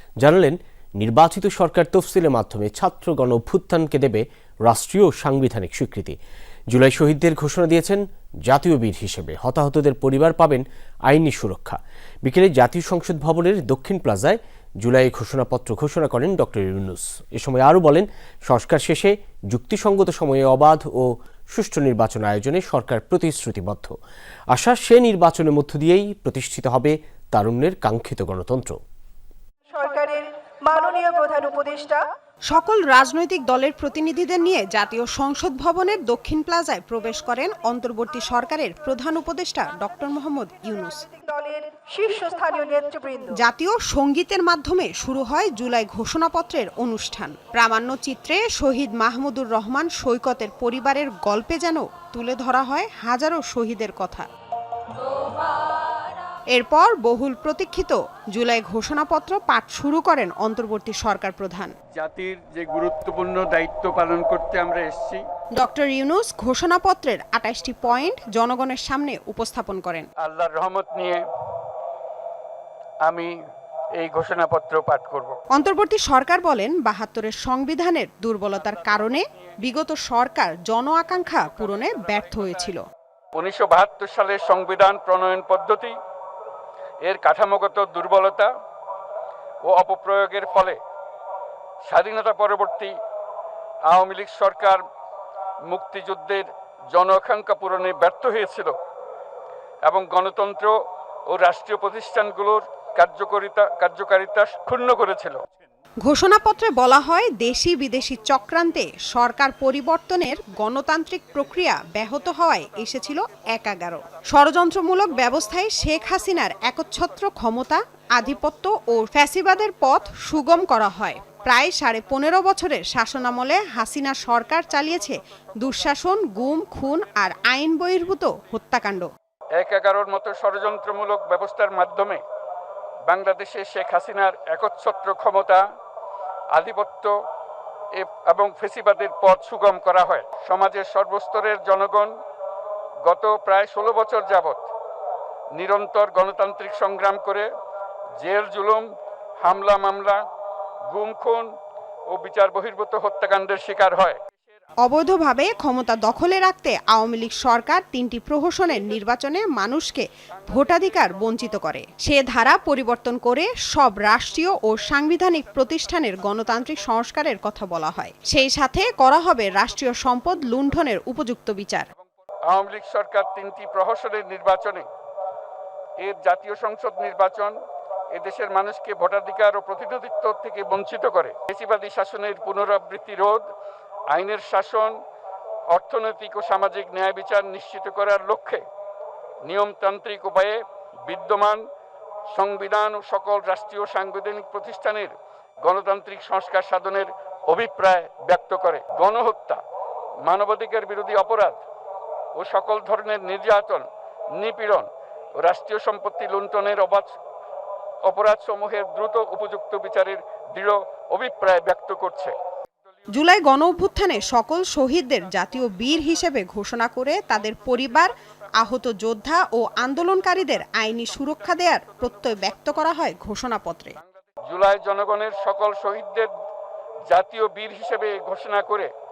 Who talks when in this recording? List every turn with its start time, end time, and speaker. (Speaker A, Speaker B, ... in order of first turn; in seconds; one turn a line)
Speaker A: 0.2-6.2
Speaker A: 6.7-23.9
Speaker A: 24.5-28.8
Speaker B: 29.7-32.1
Speaker C: 32.5-41.0
Speaker B: 41.1-43.4
Speaker C: 43.3-54.3
Speaker C: 56.5-61.7
Speaker D: 62.0-65.2
Speaker C: 65.6-70.1
Speaker D: 70.2-71.2
Speaker D: 73.1-73.3
Speaker D: 74.0-75.4
Speaker C: 75.5-82.8
Speaker D: 83.3-86.0
Speaker D: 87.1-88.5
Speaker D: 89.7-90.8
Speaker D: 91.8-93.0
Speaker D: 93.9-94.8
Speaker D: 95.7-98.7
Speaker D: 99.9-100.7
Speaker D: 101.3-105.4
Speaker C: 106.0-129.1
Speaker D: 129.6-132.2
Speaker D: 133.1-135.6
Speaker D: 136.5-137.1
Speaker D: 137.9-142.1
Speaker D: 143.1-144.6
Speaker D: 145.6-147.5
Speaker D: 148.2-148.9
Speaker D: 149.4-150.2
Speaker D: 150.9-151.5
Speaker D: 152.1-154.2
Speaker C: 154.8-171.9
Speaker D: 172.5-174.9
Speaker D: 176.0-177.6
Speaker D: 178.1-183.4
Speaker D: 184.1-184.9
Speaker D: 185.7-188.7
Speaker D: 189.5-191.6
Speaker D: 192.3-199.6
Speaker D: 200.3-201.6
Speaker D: 202.4-203.9
Speaker D: 204.4-204.9
Speaker D: 205.4-207.2
Speaker D: 208.1-212.3
Speaker C: 213.2-224.0
Speaker D: 224.5-226.3
Speaker D: 227.1-228.9